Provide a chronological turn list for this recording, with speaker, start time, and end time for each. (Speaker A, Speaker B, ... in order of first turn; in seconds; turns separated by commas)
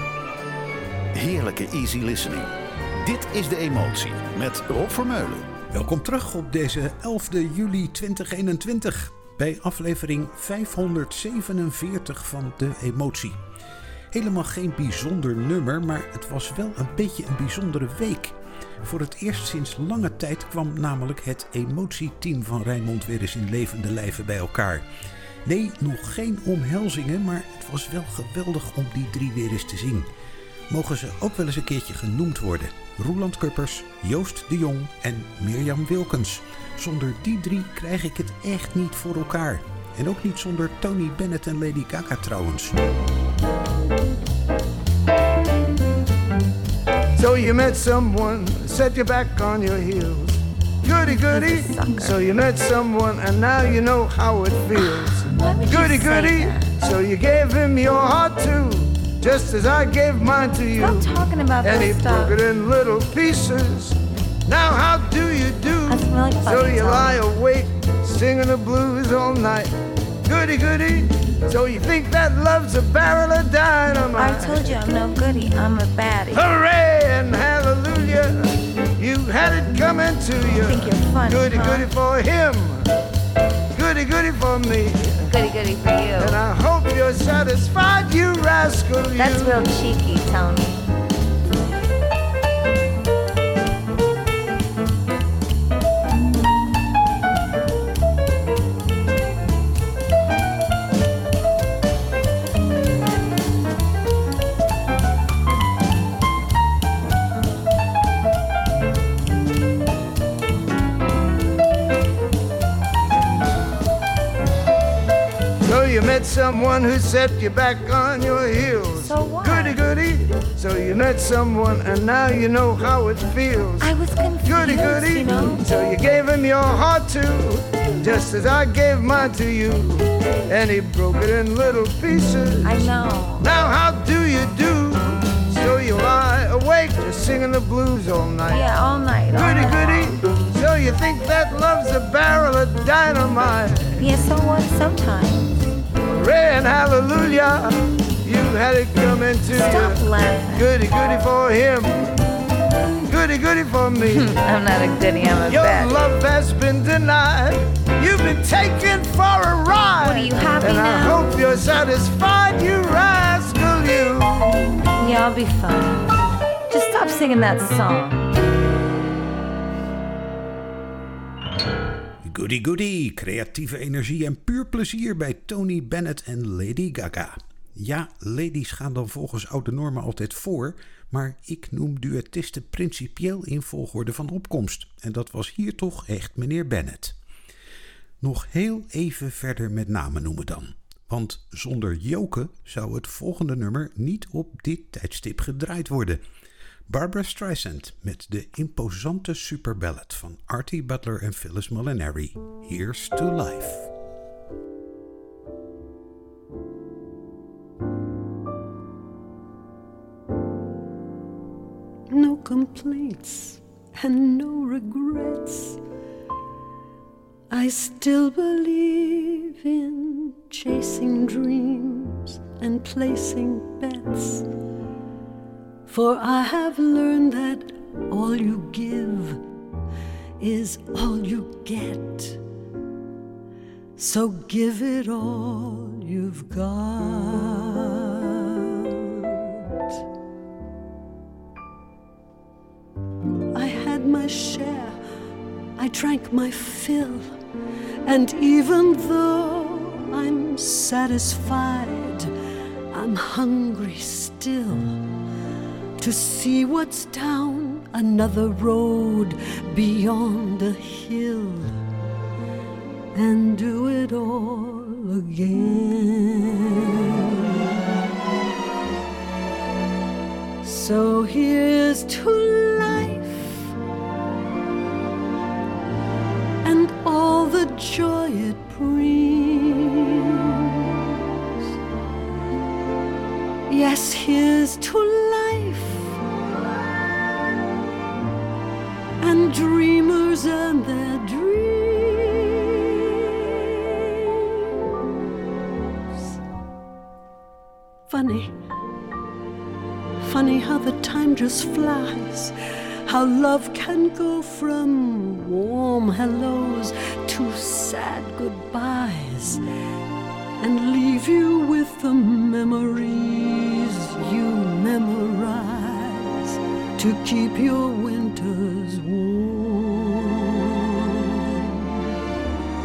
Speaker A: 1.1-5.5, Speaker B: 5.7-13.4, Speaker B: 14.1-24.9, Speaker B: 25.4-30.1, Speaker B: 30.7-42.8, Speaker C: 47.2-74.8, Speaker D: 51.0-52.1, Speaker D: 54.8-56.8, Speaker D: 60.8-62.4, Speaker D: 65.9-67.2, Speaker D: 74.2-76.4, Speaker C: 76.3-82.9, Speaker D: 80.6-81.9, Speaker C: 83.7-85.3, Speaker D: 85.3-86.4, Speaker C: 86.2-89.7, Speaker D: 89.2-90.8, Speaker C: 115.6-138.8, Speaker D: 119.0-119.8, Speaker D: 123.8-125.7, Speaker D: 132.6-133.5, Speaker D: 138.5-140.2, Speaker C: 139.3-144.2, Speaker D: 144.0-145.5, Speaker C: 146.2-152.1, Speaker D: 149.5-150.7, Speaker C: 153.1-154.4, Speaker D: 154.1-156.0, Speaker C: 155.5-164.7, Speaker D: 160.0-161.2, Speaker D: 165.0-166.1, Speaker D: 166.7-168.2, Speaker B: 172.2-187.2, Speaker B: 188.2-196.2, Speaker B: 196.9-203.9, Speaker E: 212.1-215.8, Speaker E: 217.5-224.5, Speaker E: 225.9-229.4, Speaker E: 230.4-232.4, Speaker E: 234.0-239.4, Speaker E: 243.5-245.0, Speaker E: 245.8-247.4, Speaker E: 248.1-252.3, Speaker E: 252.9-255.0, Speaker E: 256.0-261.8, Speaker E: 263.1-267.7, Speaker E: 270.6-273.7, Speaker E: 276.6-280.6, Speaker E: 283.7-286.2, Speaker E: 289.2-292.8, Speaker E: 298.1-298.6, Speaker E: 300.2-302.5, Speaker E: 303.1-309.6, Speaker E: 310.6-321.8